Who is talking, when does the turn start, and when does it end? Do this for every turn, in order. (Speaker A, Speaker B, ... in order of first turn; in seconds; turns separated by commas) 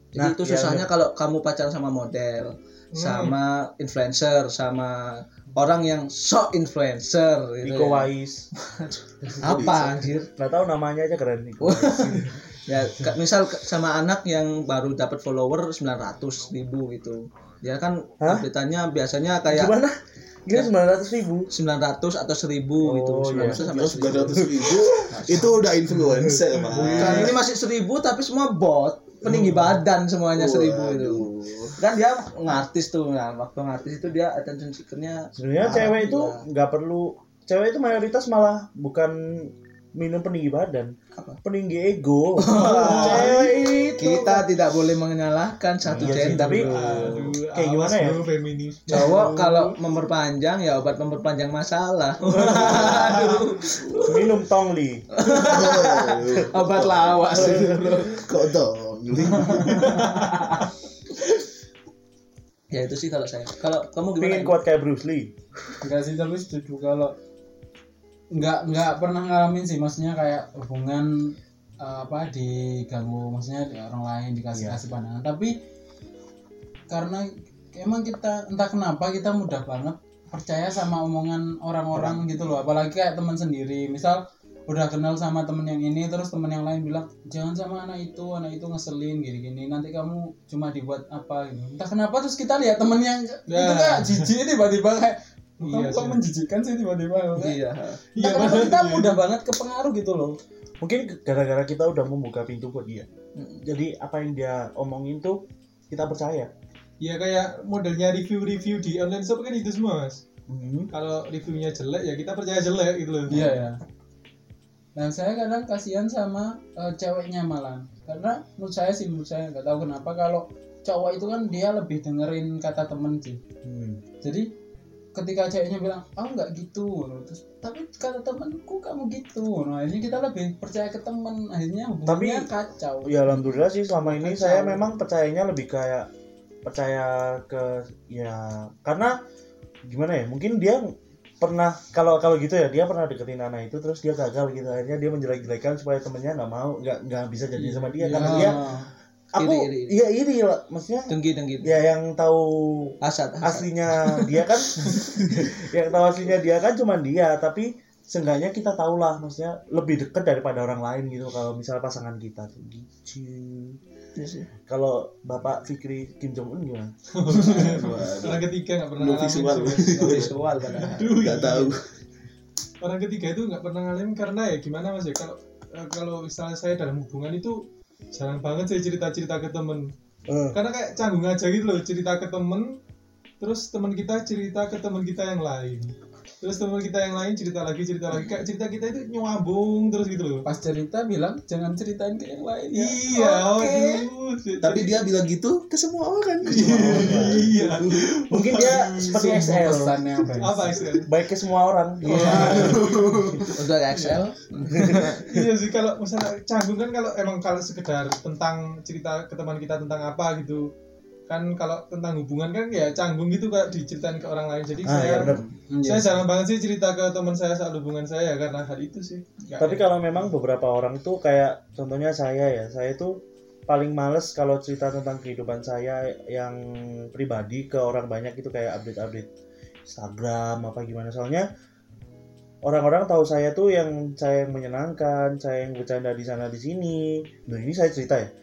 Speaker A: 0.1-10.3, Speaker B: 0.2-0.9, Speaker C: 2.9-3.4, Speaker B: 7.6-8.5, Speaker D: 9.4-10.1, Speaker B: 9.5-9.8, Speaker B: 10.4-12.4, Speaker A: 11.6-19.7, Speaker B: 18.2-18.5, Speaker B: 19.5-21.5, Speaker A: 21.5-25.5, Speaker B: 22.8-25.1, Speaker D: 23.4-27.4, Speaker B: 26.1-26.4, Speaker C: 26.7-27.4, Speaker A: 26.9-36.4, Speaker C: 29.4-29.7, Speaker D: 30.4-31.8, Speaker B: 35.4-44.4, Speaker A: 42.4-47.4, Speaker C: 42.5-43.5, Speaker B: 45.9-48.2, Speaker C: 46.0-49.7, Speaker A: 48.9-54.3, Speaker B: 52.4-53.2, Speaker C: 52.4-53.4, Speaker D: 53.7-54.1, Speaker B: 54.0-55.8, Speaker A: 55.1-58.4, Speaker D: 55.2-60.2, Speaker B: 57.4-58.0, Speaker A: 59.4-60.7, Speaker C: 59.7-60.5, Speaker A: 62.7-64.5, Speaker B: 64.2-65.3, Speaker E: 65.8-67.1, Speaker E: 68.3-75.5, Speaker B: 74.5-74.8, Speaker E: 76.9-97.6, Speaker B: 81.9-82.4, Speaker C: 93.5-94.3, Speaker C: 95.6-96.2, Speaker A: 97.4-98.4, Speaker C: 98.2-99.2, Speaker E: 98.2-100.4, Speaker B: 100.8-103.1, Speaker A: 103.4-103.7, Speaker B: 103.6-106.5, Speaker C: 107.0-110.2, Speaker B: 110.5-110.9, Speaker C: 110.9-113.5, Speaker E: 113.3-113.8, Speaker E: 115.0-123.4, Speaker B: 123.6-124.0, Speaker E: 124.2-124.5, Speaker E: 125.1-134.8, Speaker B: 132.1-132.5, Speaker B: 133.1-136.1, Speaker B: 136.7-139.2, Speaker B: 139.9-148.6, Speaker C: 147.6-148.7, Speaker E: 148.1-148.9, Speaker B: 149.3-151.1, Speaker A: 149.4-150.0, Speaker A: 151.1-151.8, Speaker B: 151.6-163.8, Speaker A: 153.0-155.4, Speaker A: 164.2-164.5, Speaker B: 164.7-166.9, Speaker C: 167.1-171.8, Speaker D: 167.3-172.0, Speaker A: 169.8-171.2, Speaker C: 172.8-179.9, Speaker B: 180.3-180.6, Speaker C: 180.5-182.8, Speaker C: 183.4-190.5, Speaker E: 190.4-194.1, Speaker C: 192.7-195.1, Speaker D: 194.6-198.1, Speaker C: 196.4-199.2, Speaker B: 196.8-197.5, Speaker B: 198.3-200.0, Speaker E: 199.0-200.8, Speaker C: 200.3-201.1, Speaker B: 201.1-203.0, Speaker C: 202.1-204.2, Speaker E: 202.5-203.5, Speaker A: 203.6-205.2, Speaker B: 204.7-205.2, Speaker C: 204.8-210.7, Speaker C: 211.3-219.8, Speaker B: 214.8-215.4, Speaker A: 215.1-215.5, Speaker E: 215.7-216.2, Speaker B: 219.6-229.3, Speaker B: 229.9-231.5, Speaker B: 232.6-238.3